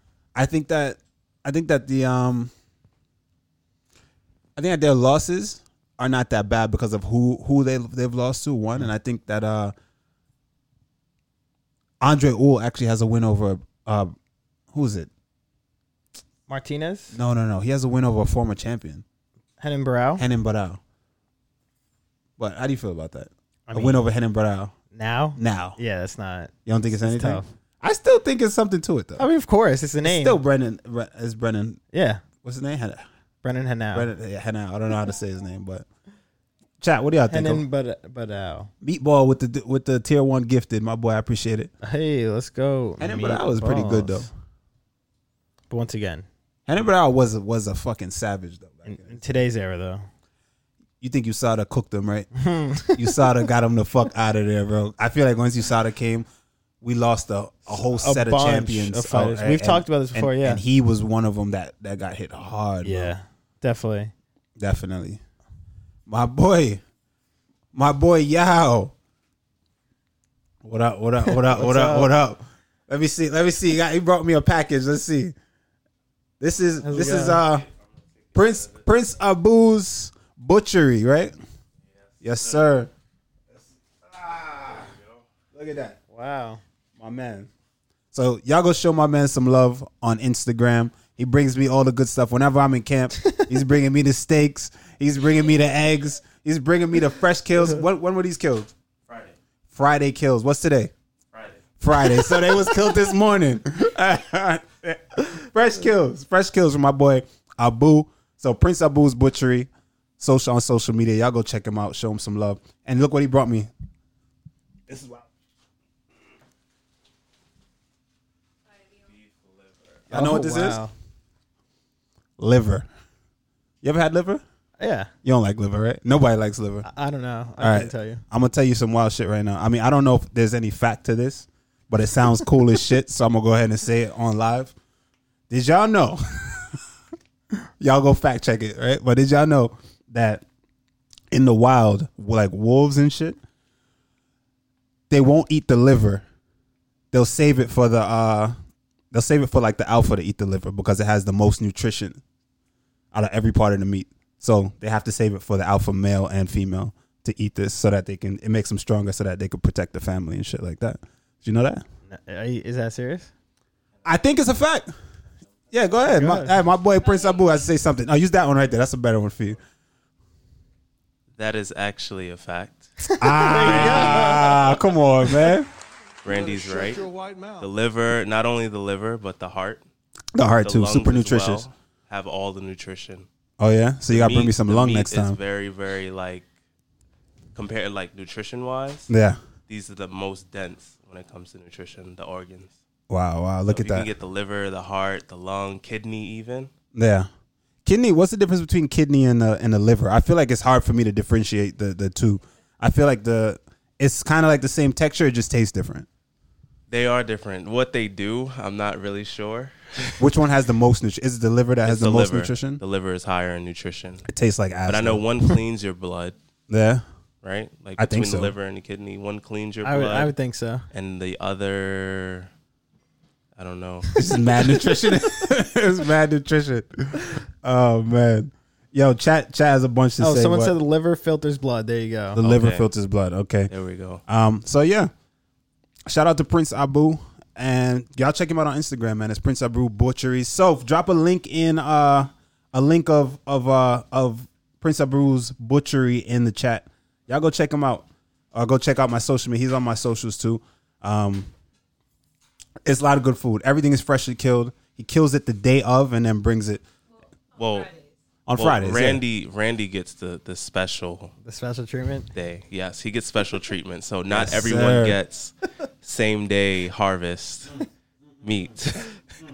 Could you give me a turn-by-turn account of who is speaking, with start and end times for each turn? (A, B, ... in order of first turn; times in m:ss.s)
0:00.3-0:02.5 A
0:04.6-0:09.7 A
0:12.0-0:14.1 A
0:14.7-0:15.1 A
0:16.5-0:17.2 B
0:17.1-0:19.0 A
0:19.6-0:20.2 B
0:20.2-0:20.8 A
0:22.4-0:24.7 A
0:23.7-0:24.0 B
0:24.9-0:27.5 B
0:25.4-0:25.8 A
0:26.6-0:29.2 A
0:29.2-0:30.4 B
0:30.0-0:31.8 A
0:31.9-0:32.2 B
0:32.4-0:33.0 A
0:33.4-0:34.1 B
0:33.9-0:35.8 A
0:36.8-0:37.6 A
0:37.3-0:38.7 B
0:38.8-0:41.7 A
0:41.8-0:44.3 B
0:43.0-0:44.3 A
0:45.7-0:46.3 B
0:46.7-0:49.2 A
0:48.8-0:50.0 B
0:51.0-0:52.3 A
0:52.4-0:53.3 B
0:52.9-0:56.2 A
0:56.8-1:03.1 A
0:57.7-1:00.6 B
1:02.8-1:04.1 B
1:04.6-1:05.2 A
1:06.1-1:06.8 A
1:07.7-1:08.9 A
1:10.6-1:15.3 A
1:11.3-1:12.1 B
1:16.4-1:17.7 A
1:16.8-1:17.4 B
1:18.3-1:18.8 C
1:18.3-1:21.3 A
1:22.2-1:22.9 A
1:23.6-1:24.9 A
1:25.5-1:26.0 A
1:26.1-1:26.6 B
1:27.0-1:27.5 A
1:28.1-1:38.7 A
1:39.1-1:39.3 C
1:39.7-1:40.9 A
1:41.3-1:41.6 C
1:41.8-1:53.7 A
1:42.0-1:42.9 B
1:54.9-1:55.2 A
1:59.1-2:00.0 C
2:00.1-2:00.8 A
2:00.1-2:00.9 B
2:02.4-2:02.9 A
2:03.8-2:04.4 A
2:04.8-2:05.1 B
2:05.2-2:06.9 A
2:06.8-2:08.2 B
2:07.6-2:14.7 A
2:15.5-2:16.8 A
2:17.6-2:20.4 A
2:21.3-2:23.4 A
2:25.1-2:26.2 A
2:27.1-2:28.5 A
2:29.1-2:32.2 A
2:33.1-2:41.8 A
2:42.1-2:43.3 B
2:44.0-2:44.9 A
2:45.7-2:49.6 A
2:46.0-2:46.5 B
2:51.4-2:52.9 C
2:53.0-2:54.6 B
2:53.2-2:55.7 A
2:53.5-2:54.7 C
2:56.2-2:59.8 C
3:00.3-3:01.6 A
3:00.6-3:03.3 C
3:03.6-3:05.4 A
3:04.1-3:06.5 C
3:07.5-3:09.1 C
3:09.1-3:09.4 A
3:09.7-3:12.8 C
3:13.1-3:14.1 A
3:13.7-3:16.7 C
3:16.9-3:17.3 A
3:17.8-3:26.1 A
3:26.9-3:30.2 C
3:30.2-3:32.8 A
3:31.8-3:34.2 C
3:34.2-3:35.2 A
3:34.9-3:36.3 C
3:36.7-3:37.0 A
3:37.4-3:40.3 C
3:38.0-3:38.5 A
3:39.8-3:40.8 B
3:40.9-3:42.5 C
3:43.6-3:44.2 C
3:44.2-3:50.7 A
3:50.2-3:52.4 B
3:52.3-3:53.7 A
3:52.4-3:52.9 C
3:53.7-3:54.2 C
3:54.3-3:55.1 A
3:56.1-4:11.5 A
4:12.8-4:16.8 A
4:17.6-4:18.0 C
4:18.5-4:19.2 A
4:18.5-4:21.3 C
4:21.4-4:22.3 B
4:22.3-4:27.8 C
4:24.3-4:25.2 A
4:28.4-4:29.2 C